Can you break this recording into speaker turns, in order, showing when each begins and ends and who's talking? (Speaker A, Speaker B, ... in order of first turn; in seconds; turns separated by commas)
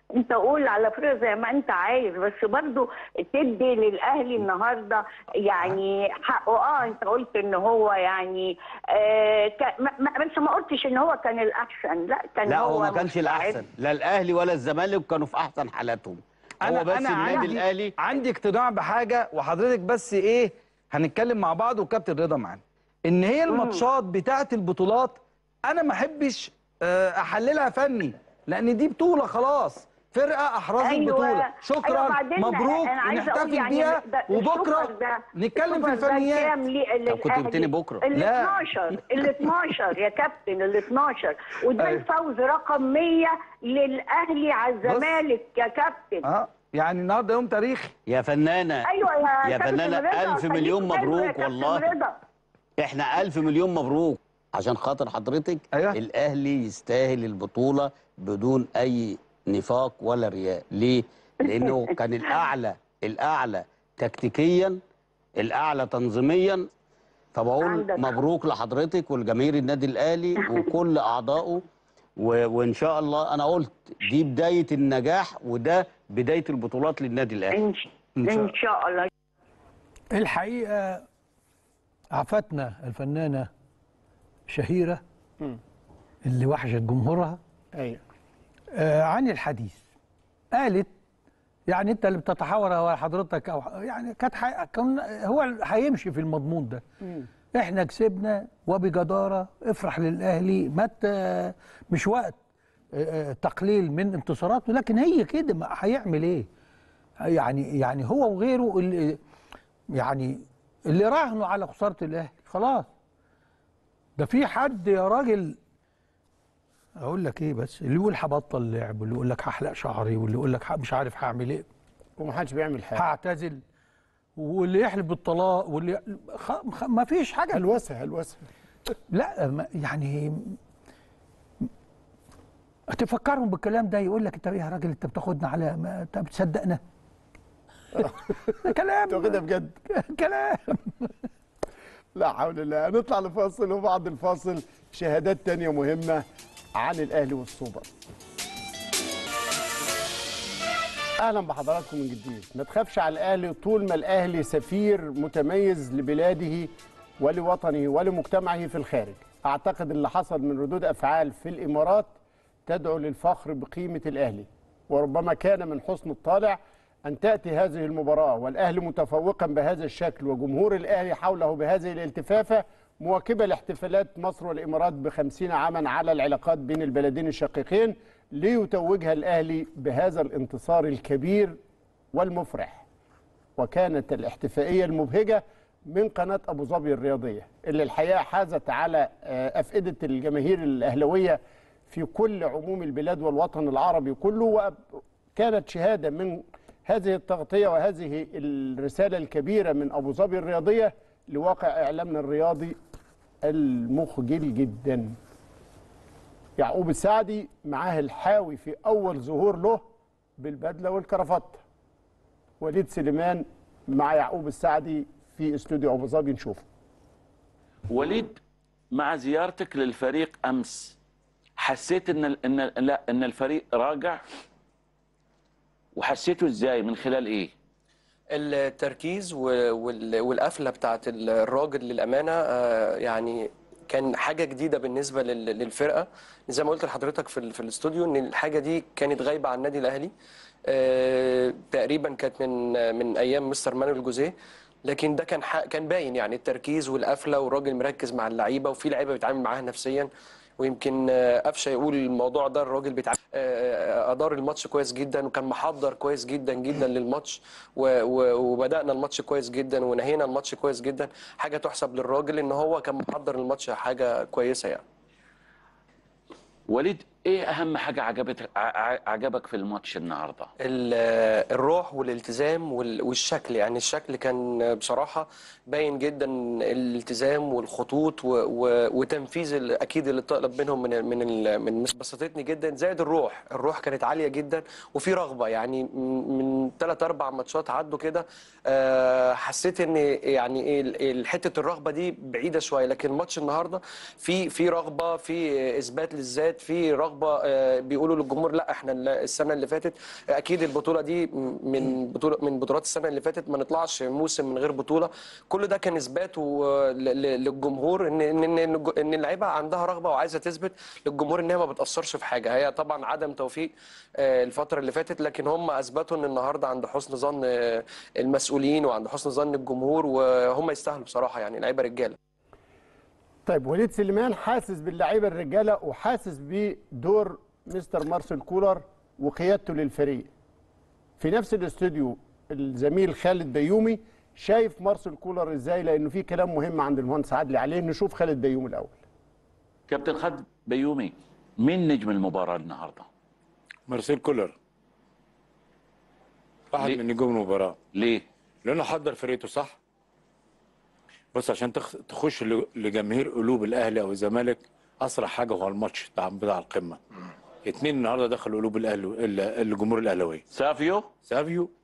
Speaker A: 0.1-13.6, Speaker B: 12.5-17.9, Speaker C: 16.6-36.5, Speaker A: 17.2-17.5, Speaker A: 23.5-23.8, Speaker A: 30.8-46.2, Speaker B: 37.1-38.1, Speaker C: 38.1-38.6, Speaker C: 41.8-42.0, Speaker C: 44.8-45.2, Speaker C: 46.2-47.9, Speaker B: 48.1-51.9, Speaker A: 48.8-52.1, Speaker B: 52.8-64.8, Speaker C: 55.7-56.0, Speaker B: 65.4-66.6, Speaker B: 67.3-71.6, Speaker A: 67.6-68.1, Speaker B: 72.2-77.5, Speaker A: 77.5-79.1, Speaker B: 78.2-78.5, Speaker D: 80.1-81.0, Speaker D: 82.1-83.5, Speaker D: 84.5-85.0, Speaker D: 86.2-87.4, Speaker E: 87.7-88.0, Speaker D: 88.7-89.8, Speaker D: 90.5-90.9, Speaker D: 91.7-96.8, Speaker E: 97.0-97.3, Speaker D: 97.5-102.4, Speaker D: 102.9-106.5, Speaker D: 107.2-109.2, Speaker D: 109.9-112.9, Speaker D: 114.2-115.6, Speaker D: 117.0-121.6, Speaker E: 122.2-123.1, Speaker D: 123.0-123.6, Speaker D: 124.4-127.6, Speaker E: 127.5-128.4, Speaker D: 129.1-130.6, Speaker D: 132.9-136.8, Speaker D: 138.1-139.4, Speaker E: 139.1-139.8, Speaker D: 139.9-141.1, Speaker E: 142.1-146.2, Speaker E: 146.8-147.9, Speaker E: 151.2-162.1, Speaker E: 162.7-181.6, Speaker E: 182.1-182.8, Speaker E: 183.6-194.8, Speaker E: 195.3-202.8, Speaker E: 203.4-205.1, Speaker E: 206.6-209.8, Speaker E: 210.4-211.6, Speaker E: 212.6-216.7, Speaker F: 217.9-218.4, Speaker F: 218.9-221.0, Speaker F: 221.6-224.2, Speaker F: 225.9-227.5, Speaker G: 228.3-240.1, Speaker G: 240.7-264.8, Speaker F: 266.7-270.5, Speaker G: 270.6-322.2, Speaker E: 323.4-330.3, Speaker E: 331.2-339.0, Speaker F: 339.9-343.1, Speaker H: 343.9-344.5, Speaker H: 346.7-347.8, Speaker F: 347.9-348.2, Speaker H: 348.6-349.8, Speaker H: 351.3-357.0, Speaker H: 357.7-360.4, Speaker F: 360.5-361.1, Speaker H: 361.3-361.6